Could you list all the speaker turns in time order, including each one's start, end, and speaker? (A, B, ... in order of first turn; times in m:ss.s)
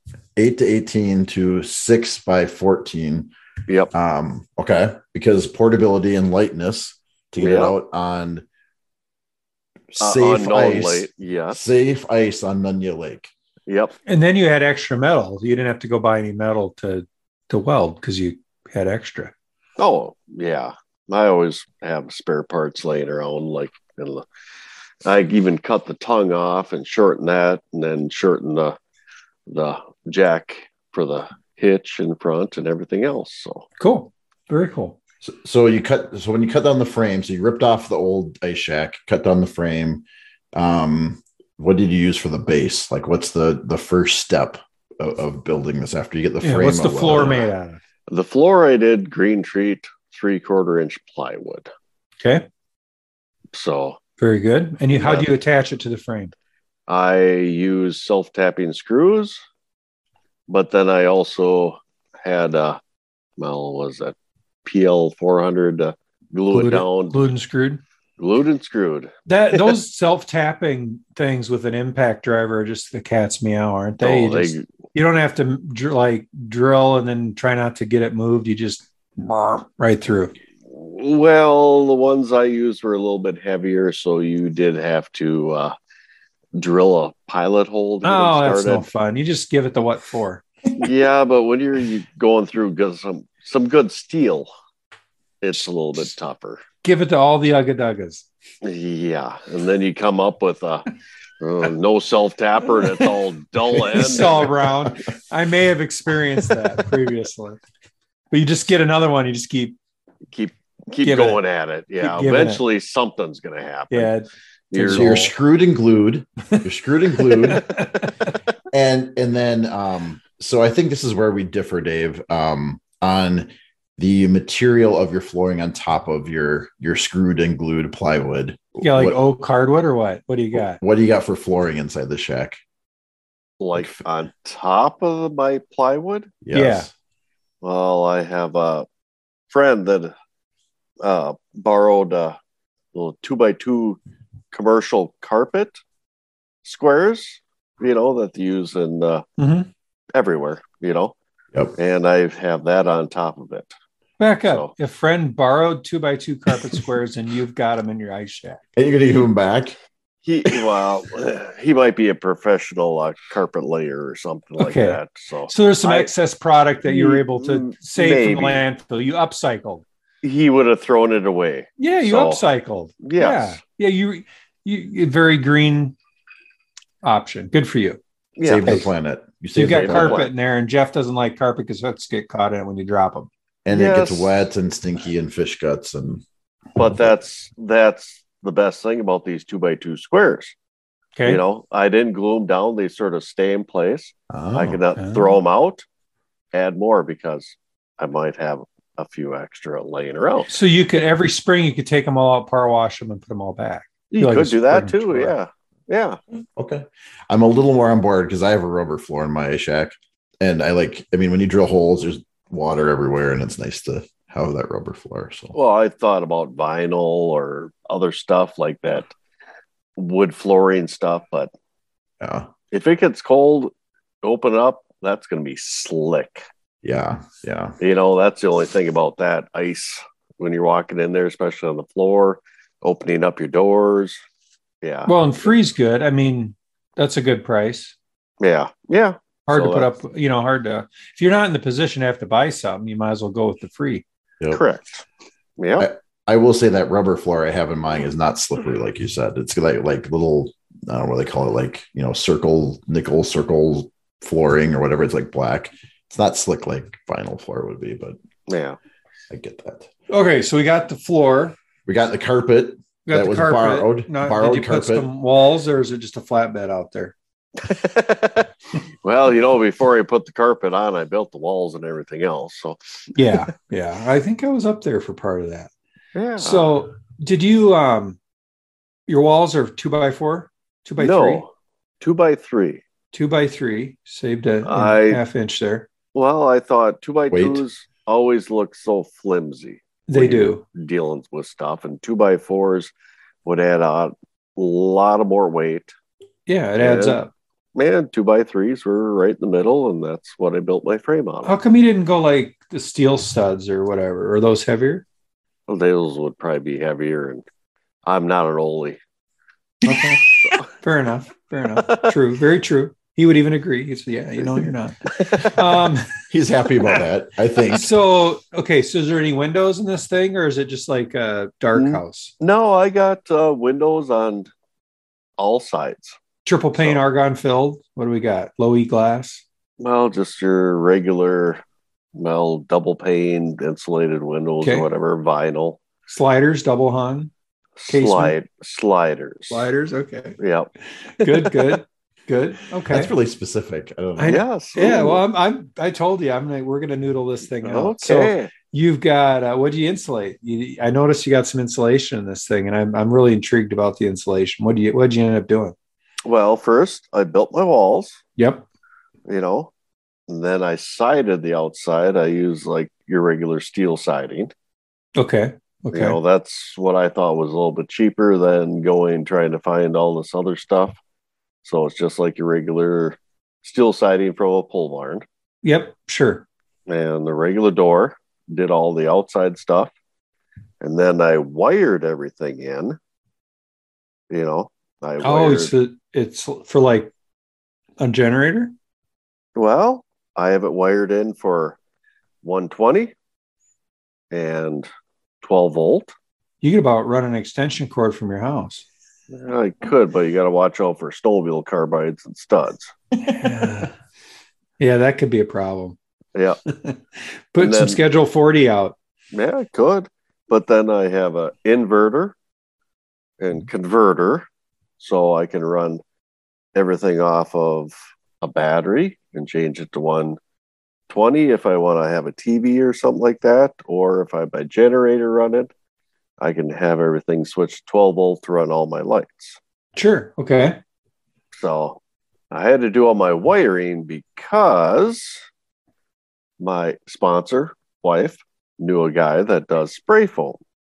0:00.4-0:03.3 A
0:03.9-0:08.4 A
0:07.4-0:07.7 B
0:09.9-0:13.3 A
0:10.0-0:11.6 B
0:13.7-0:14.0 B
0:14.1-0:19.3 C
0:19.8-0:24.3 B
0:25.0-0:28.8 B
0:29.5-0:33.7 B
0:33.8-0:35.0 C
0:35.2-0:47.5 A
0:46.4-0:47.8 C
0:47.1-0:47.4 B
0:48.1-0:51.7 B
0:53.5-0:54.0 B
0:54.2-0:56.3 C
0:54.9-0:55.3 B
0:56.9-0:59.4 B
1:00.5-1:02.8 B
1:03.4-1:07.2 B
1:06.5-1:07.8 C
1:08.2-1:09.1 B
1:09.3-1:20.3 C
1:14.0-1:14.7 B
1:20.7-1:25.8 B
1:26.6-1:28.9 B
1:28.0-1:30.4 C
1:30.8-1:34.5 B
1:35.4-1:36.6 B
1:36.8-1:38.2 C
1:38.6-1:40.8 B
1:41.4-1:44.5 B
1:43.8-1:47.6 C
1:48.3-1:49.8 C
1:50.3-1:54.1 B
1:51.0-1:51.4 C
1:52.0-1:52.6 C
1:53.9-1:55.3 C
1:54.7-1:55.1 B
1:54.9-1:57.7 A
1:56.5-1:58.3 C
1:58.7-2:09.2 A
2:08.8-2:10.8 C
2:10.5-2:12.6 A
2:13.6-2:16.3 B
2:13.8-2:14.0 A
2:16.4-2:16.9 A
2:16.5-2:16.9 C
2:17.6-2:18.9 B
2:19.5-2:20.1 B
2:21.0-2:22.4 B
2:22.9-2:24.0 B
2:24.5-2:25.8 B
2:26.6-2:29.2 B
2:29.4-2:29.7 C
2:30.1-2:31.2 B
2:31.8-2:33.7 B
2:34.2-2:38.6 C
2:34.4-2:34.7 B
2:38.8-2:39.8 A
2:40.2-2:46.1 B
2:44.6-2:49.8 C
2:46.9-2:48.6 B
2:50.2-2:52.4 B
2:51.8-2:56.0 C
2:53.0-2:53.6 B
2:57.0-2:58.0 C
2:58.4-2:58.8 B
2:58.4-3:00.2 A
2:59.6-3:03.3 C
2:59.6-3:00.3 B
3:03.6-3:06.2 A
3:03.7-3:04.4 B
3:06.8-3:10.6 B
3:11.2-3:15.9 B
3:14.3-3:14.8 A
3:15.0-3:15.3 C
3:16.5-3:20.5 B
3:20.5-3:25.4 C
3:24.1-3:26.2 B
3:26.6-3:35.6 A
3:35.5-3:39.1 B
3:40.0-3:41.5 B
3:42.2-3:42.5 A
3:42.7-3:43.7 B
3:44.2-3:46.5 B
3:46.8-3:47.8 A
3:47.8-3:54.2 B
3:54.8-3:55.6 B
3:55.1-3:58.0 C
3:58.4-3:59.9 B
3:59.5-4:04.0 C
4:04.5-4:05.0 B
4:05.6-4:05.9 B
4:05.8-4:18.2 A
4:18.5-4:18.8 B
4:19.3-4:19.9 A
4:20.1-4:21.6 C
4:21.9-4:25.1 A
4:23.1-4:27.1 C
4:27.6-4:28.5 B
4:29.0-4:33.4 B
4:33.1-4:35.7 C
4:36.2-4:36.7 B
4:36.4-4:38.2 C
4:39.1-4:41.4 C
4:41.0-4:42.8 B
4:43.1-4:45.9 C
4:44.6-4:45.2 B
4:46.1-4:52.9 B
4:47.3-4:47.6 A
4:50.1-4:50.6 C
4:53.4-4:55.9 B
4:56.5-4:57.3 C
4:56.8-4:57.2 B
4:57.8-5:01.6 B
5:01.4-5:05.0 C
5:05.7-5:07.4 B
5:08.1-5:09.0 B
5:09.8-5:10.2 C
5:10.8-5:16.1 C
5:15.1-5:15.5 B
5:16.3-5:17.9 A
5:17.7-5:22.3 C
5:21.8-5:24.5 B
5:25.4-5:26.2 B
5:26.4-5:29.4 C
5:29.8-5:31.6 B
5:32.2-5:35.8 B
5:34.6-5:34.9 C
5:36.1-5:37.3 C
5:37.8-5:39.7 B
5:37.9-5:38.4 C
5:39.5-5:40.4 C
5:40.4-5:41.8 B
5:41.2-5:43.1 C
5:42.9-5:44.4 A
5:44.2-5:55.8 C
5:44.2-5:45.2 B
5:47.6-5:48.5 B
5:56.3-5:58.2 B
5:58.4-5:58.6 C
5:59.3-5:59.7 B
6:00.3-6:04.5 B
6:05.2-6:06.2 C
6:05.9-6:11.0 B
6:11.6-6:15.2 B
6:15.6-6:16.4 C
6:16.9-6:19.9 B
6:20.8-6:23.0 B
6:24.3-6:25.7 B
6:25.2-6:27.1 C
6:28.0-6:28.7 C
6:29.6-6:31.8 B
6:32.4-6:33.1 B
6:34.3-6:34.9 B
6:35.4-6:36.1 B
6:36.6-6:38.8 C
6:39.3-6:42.9 B
6:43.3-6:43.9 C
6:44.8-6:46.0 C
6:46.7-6:49.0 C
6:47.6-6:48.0 B
6:49.3-6:52.4 B
6:53.4-6:54.5 B
6:55.0-6:56.0 B
6:56.8-7:00.4 B
7:01.1-7:05.7 B
7:06.4-7:09.6 B
7:10.0-7:10.8 C
7:11.5-7:12.0 B
7:12.5-7:15.4 B
7:16.6-7:20.6 B